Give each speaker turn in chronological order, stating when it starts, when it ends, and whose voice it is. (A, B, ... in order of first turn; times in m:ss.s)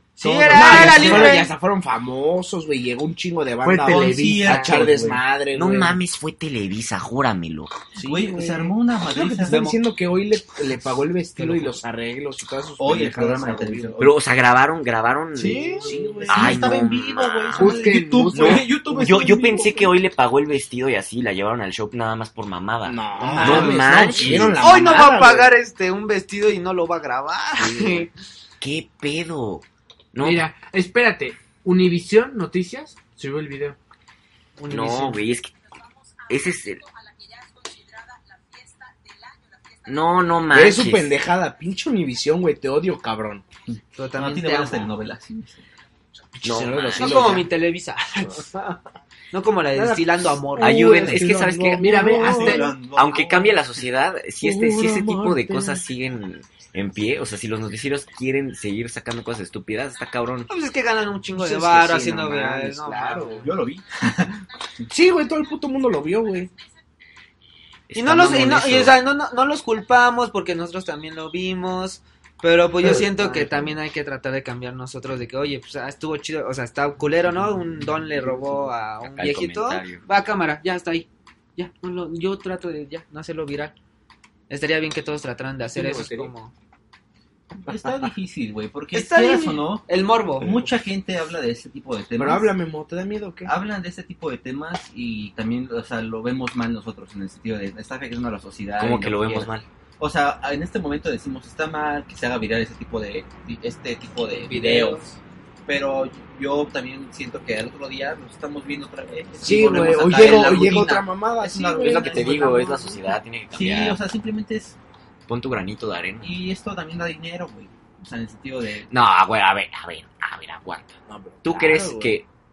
0:00.2-0:01.5 A
0:00.2-0:06.0 B
0:00.4-0:01.4 C
0:03.6-0:04.8 D
0:03.8-0:05.2 C
0:05.5-0:07.8 E
0:07.9-0:14.0 B
0:08.0-0:09.8 C
0:12.8-0:14.2 C
0:14.0-0:24.6 E
0:15.4-0:19.9 C
0:15.8-0:16.8 B
0:17.5-0:18.7 D
0:22.8-0:25.5 B
0:23.2-0:24.5 C
0:23.4-0:23.7 A
0:24.6-0:28.1 A
0:27.7-0:27.9 E
0:28.6-0:30.4 E
0:30.2-0:33.8 D
0:34.6-0:35.2 A
0:34.7-0:35.5 E
0:36.2-0:36.9 E
0:39.8-0:41.2 E
0:40.5-0:43.4 B
0:43.7-0:45.6 C
0:43.9-0:44.9 A
0:46.4-0:47.5 B
0:46.4-0:47.4 E
0:46.9-0:48.5 A
0:48.4-0:48.8 B
0:49.3-0:51.0 A
0:49.7-0:52.7 B
0:50.6-1:00.5 E
0:51.8-0:52.7 D
0:52.2-0:53.6 C
0:54.4-0:55.8 B
1:00.5-1:03.5 A
1:01.3-1:03.5 B
1:03.4-1:04.8 C
1:04.9-1:06.5 B
1:07.9-1:08.9 E
1:07.9-1:23.7 A
1:13.1-1:13.5 B
1:19.0-1:20.0 E
1:24.5-1:26.5 A
1:25.7-1:26.3 D
1:27.6-1:32.5 C
1:28.9-1:30.7 A
1:32.2-1:33.5 B
1:33.4-1:45.0 C
1:38.8-1:39.6 E
1:44.3-1:45.2 A
1:45.6-1:52.8 C
1:49.4-1:53.0 B
1:51.8-1:54.0 E
1:53.5-1:54.8 C
1:55.3-1:56.3 E
1:56.2-1:58.9 C
1:58.9-2:02.3 E
2:01.1-2:02.2 B